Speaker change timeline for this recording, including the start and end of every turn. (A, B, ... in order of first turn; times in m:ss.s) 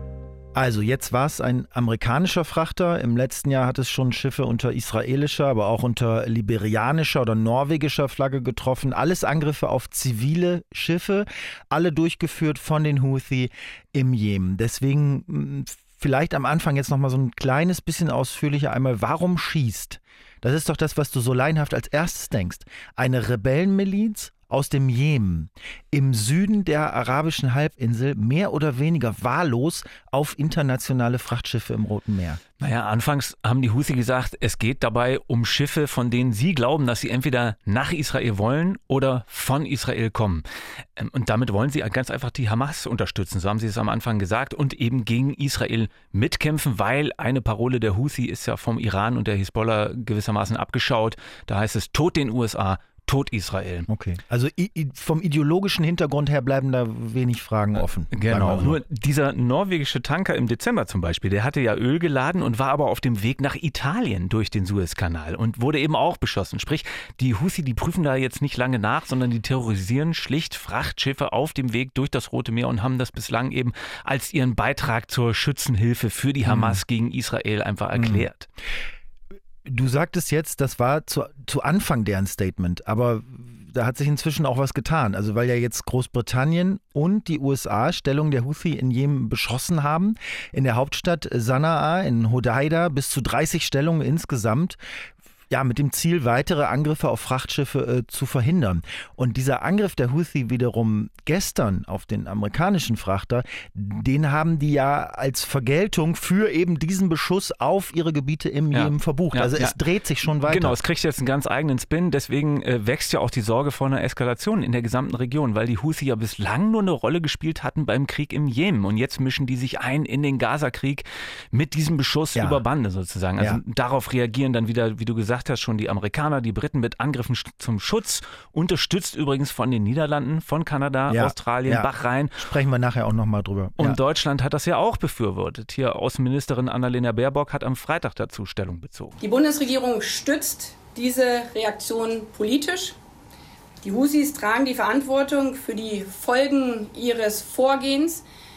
0:00.6-0:32.4 A
0:32.6-0:40.5 B
0:41.0-0:53.9 B
0:53.9-0:58.8 A
0:57.8-1:18.5 B
1:16.5-1:16.8 A
1:18.0-1:18.3 A
1:19.6-1:34.8 A
1:35.5-1:50.8 A
1:48.7-1:49.8 B
1:50.4-2:12.4 B
2:02.4-2:02.6 A
2:11.1-2:14.0 A
2:13.8-2:19.2 B
2:19.2-2:23.0 C
2:23.8-2:28.2 C